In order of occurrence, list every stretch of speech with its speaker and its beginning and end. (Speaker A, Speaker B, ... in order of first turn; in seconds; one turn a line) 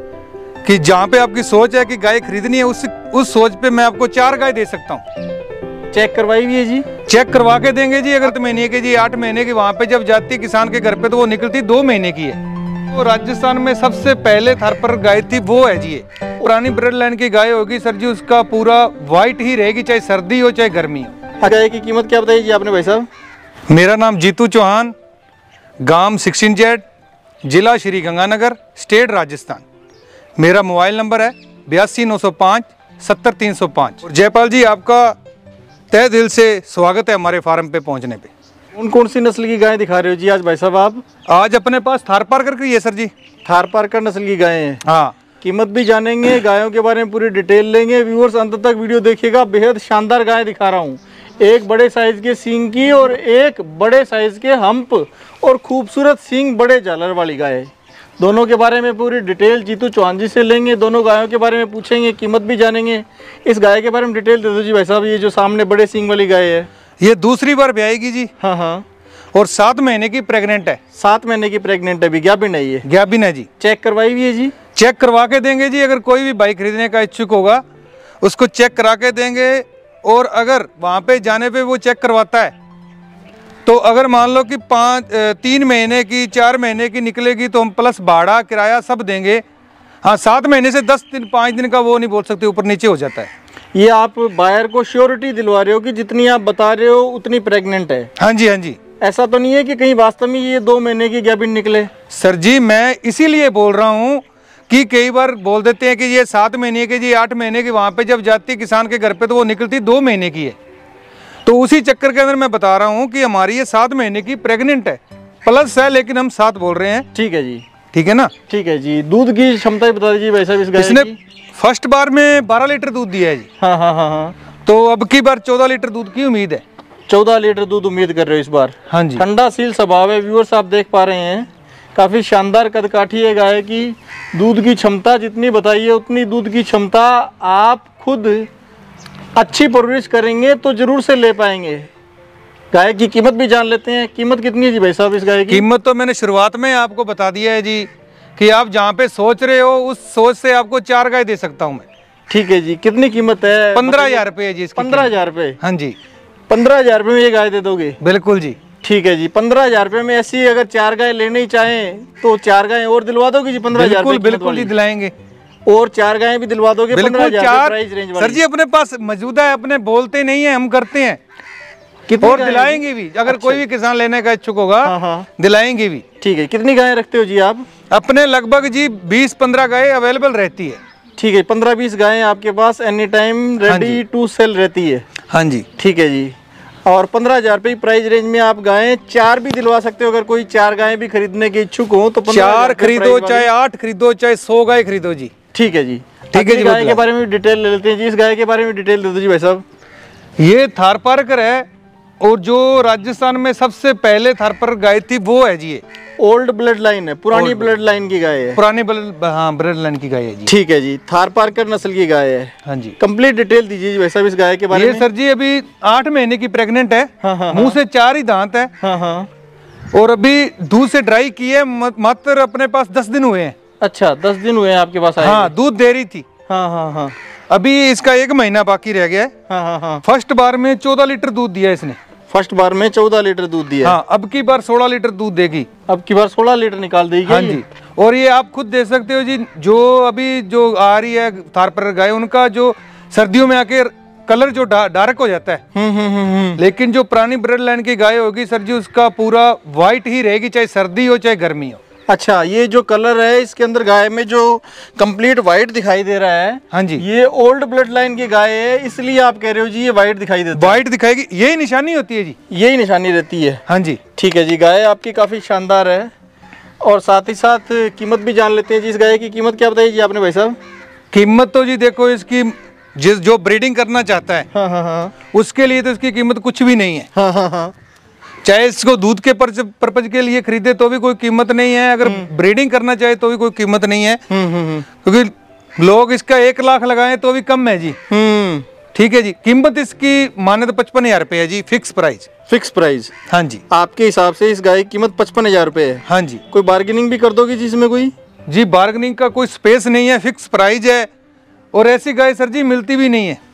Speaker A: 0.6-5.0
Speaker B: 5.9-6.8
Speaker A: 7.1-21.1
Speaker B: 21.4-23.1
Speaker A: 23.7-24.9
Speaker A: 25.8-26.8
Speaker A: 27.4-29.6
Speaker A: 30.4-35.2
Speaker A: 35.9-38.3
Speaker B: 38.7-41.0
Speaker A: 41.3-43.1
Speaker B: 43.4-44.8
Speaker A: 44.8-45.1
Speaker B: 45.4-66.7
Speaker A: 67.0-68.3
Speaker B: 68.4-68.8
Speaker A: 69.3-70.8
Speaker B: 70.9-72.8
Speaker A: 72.8-73.5
Speaker B: 73.6-74.5
Speaker A: 74.7-77.6
Speaker A: 78.2-82.5
Speaker A: 83.7-89.4
Speaker A: 90.0-93.3
Speaker B: 93.7-98.1
Speaker A: 98.2-98.8
Speaker B: 99.0-101.9
Speaker A: 102.1-110.5
Speaker A: 111.4-117.0
Speaker B: 117.1-117.6
Speaker A: 117.9-118.3
Speaker B: 118.5-121.1
Speaker A: 120.8-123.5
Speaker B: 123.6-124.3
Speaker A: 124.7-126.6
Speaker B: 127.1-138.5
Speaker A: 128.9-129.2
Speaker B: 139.3-141.9
Speaker B: 142.7-145.6
Speaker A: 145.5-151.8
Speaker B: 152.3-155.6
Speaker A: 153.7-155.1
Speaker A: 155.6-155.9
Speaker B: 156.5-158.0
Speaker A: 158.0-158.6
Speaker B: 158.8-164.7
Speaker A: 163.7-165.1
Speaker B: 165.7-168.4
Speaker A: 166.9-171.2
Speaker B: 172.1-173.6
Speaker A: 172.2-176.0
Speaker B: 174.8-175.3
Speaker B: 176.2-177.6
Speaker A: 177.9-180.8
Speaker B: 181.2-185.0
Speaker A: 183.7-184.0
Speaker A: 185.3-185.7
Speaker B: 185.8-186.3
Speaker B: 186.8-193.5
Speaker A: 192.3-195.3
Speaker B: 195.5-199.6
Speaker A: 196.3-197.0
Speaker A: 200.4-201.7
Speaker A: 202.2-205.8
Speaker B: 206.2-208.6
Speaker A: 207.3-207.7
Speaker A: 208.5-210.5
Speaker B: 210.5-215.1
Speaker A: 212.6-212.9
Speaker A: 214.7-218.7
Speaker B: 217.2-217.8
Speaker B: 218.8-219.3
Speaker A: 219.9-223.5
Speaker B: 223.8-225.5
Speaker A: 225.2-226.2
Speaker B: 226.5-227.1
Speaker A: 227.5-229.3
Speaker B: 229.5-230.0
Speaker A: 230.0-232.0
Speaker B: 232.3-233.9
Speaker A: 233.8-235.7
Speaker B: 235.9-237.6
Speaker A: 237.3-245.6
Speaker B: 245.7-246.6
Speaker A: 246.6-251.8
Speaker B: 252.1-260.8
Speaker A: 256.7-257.0
Speaker A: 260.5-262.4
Speaker B: 262.5-263.6
Speaker A: 263.7-264.0
Speaker B: 264.1-266.1
Speaker B: 266.8-270.6
Speaker A: 271.1-274.5
Speaker B: 274.5-275.1
Speaker A: 275.3-277.1
Speaker B: 277.1-277.7
Speaker A: 278.4-284.2
Speaker B: 282.0-282.3
Speaker B: 284.3-284.9
Speaker A: 285.0-288.0
Speaker B: 288.1-288.6
Speaker A: 288.9-292.3
Speaker B: 292.5-293.1
Speaker A: 293.3-293.6
Speaker B: 293.7-298.1
Speaker A: 296.1-296.4
Speaker A: 298.5-301.1
Speaker A: 301.7-303.4